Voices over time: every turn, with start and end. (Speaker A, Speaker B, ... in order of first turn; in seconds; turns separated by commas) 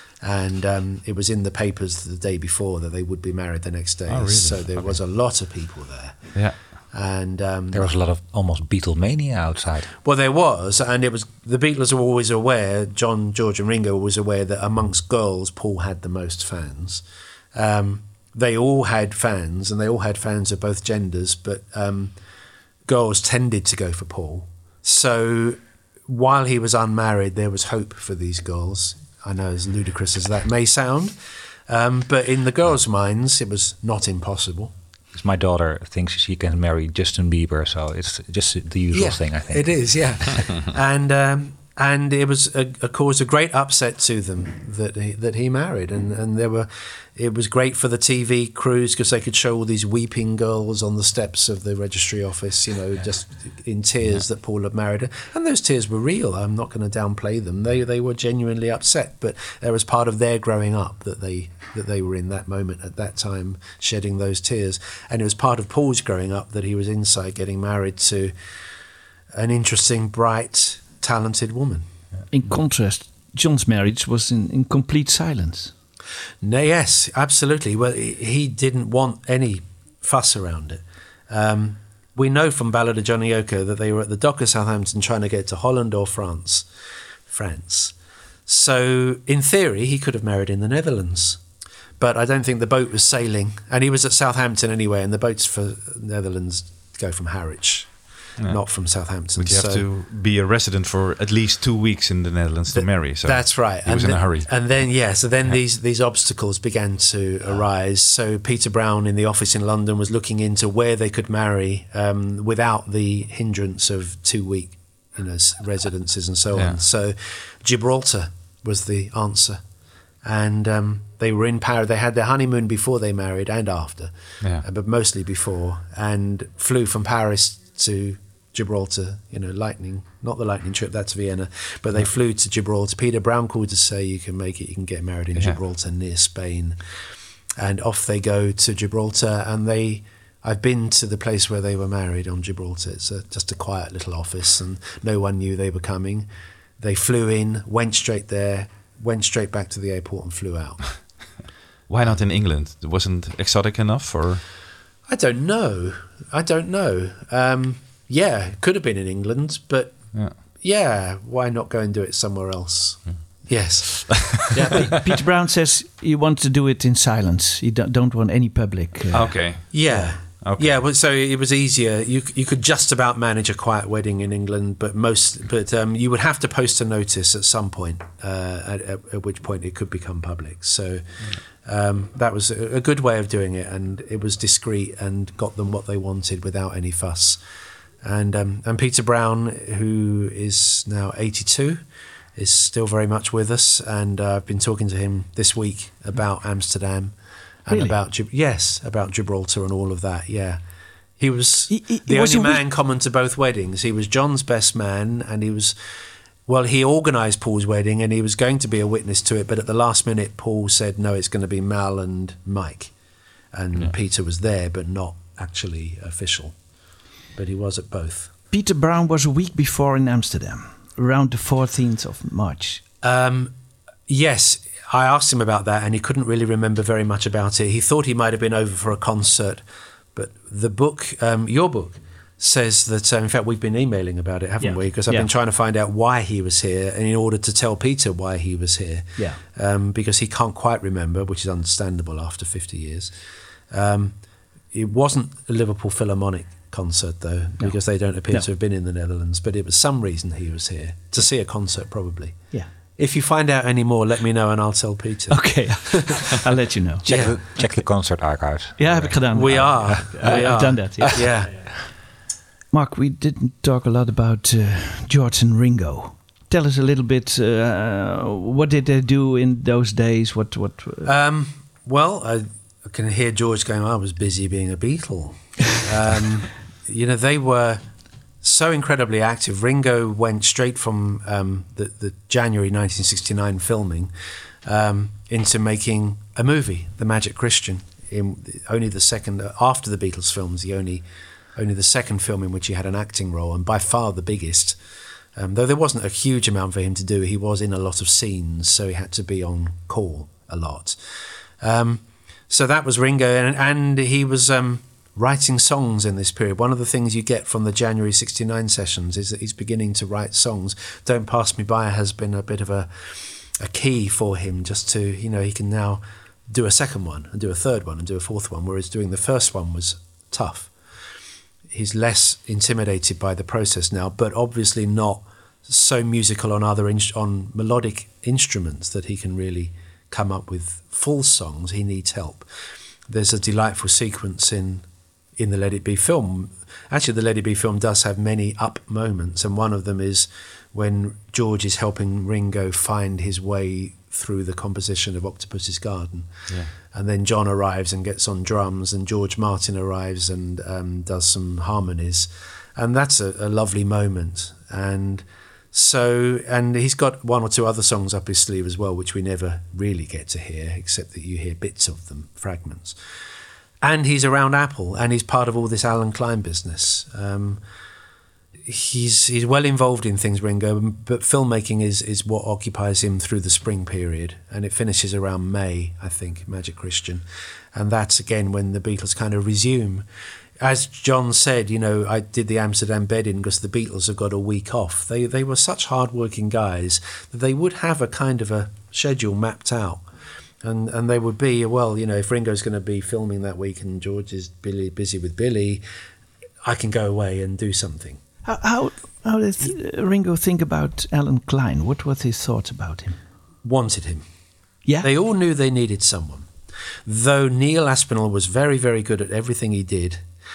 Speaker A: 0.2-7.9, Speaker B: 4.1-5.0, Speaker C: 7.7-9.9, Speaker A: 10.0-17.0, Speaker A: 17.5-22.1, Speaker A: 22.9-31.2, Speaker A: 31.7-34.7, Speaker C: 35.1-39.7, Speaker A: 38.9-68.3, Speaker A: 69.3-71.8, Speaker D: 72.3-75.7, Speaker A: 76.4-86.7, Speaker A: 87.3-87.9, Speaker A: 88.5-91.4, Speaker A: 92.0-99.8, Speaker B: 99.4-105.6, Speaker A: 102.7-119.6, Speaker A: 120.2-136.8, Speaker A: 137.6-146.3, Speaker A: 146.8-151.1, Speaker B: 151.9-154.4, Speaker A: 155.1-160.0, Speaker A: 160.5-165.0, Speaker B: 163.9-164.9, Speaker D: 165.0-169.4, Speaker B: 169.1-170.7, Speaker A: 169.7-187.4, Speaker A: 188.0-191.8, Speaker A: 192.4-197.1, Speaker A: 197.7-200.6, Speaker D: 197.7-197.9, Speaker A: 201.2-205.8, Speaker D: 201.7-202.6, Speaker A: 206.5-212.9, Speaker A: 213.5-216.6, Speaker A: 217.3-218.3, Speaker D: 218.5-222.8, Speaker A: 223.0-223.5, Speaker A: 224.1-229.6, Speaker A: 230.1-243.1, Speaker D: 234.6-235.3, Speaker A: 243.7-244.1, Speaker A: 244.7-256.4, Speaker D: 255.3-257.6, Speaker C: 257.0-261.3, Speaker A: 257.1-257.4, Speaker D: 258.8-261.4, Speaker A: 259.3-261.7, Speaker D: 262.7-271.1, Speaker A: 271.0-277.8, Speaker A: 278.4-284.1, Speaker A: 284.6-291.0, Speaker A: 291.6-294.8, Speaker A: 295.4-301.0, Speaker A: 301.6-320.7, Speaker A: 321.7-332.5, Speaker A: 333.1-334.9, Speaker A: 335.4-346.3, Speaker A: 346.8-363.0, Speaker A: 363.8-367.6, Speaker A: 368.7-377.2, Speaker A: 377.7-380.0, Speaker A: 380.6-390.0, Speaker A: 390.6-395.8, Speaker A: 396.6-398.2, Speaker D: 398.4-403.2, Speaker A: 403.6-404.2, Speaker A: 405.0-406.5, Speaker A: 407.1-410.2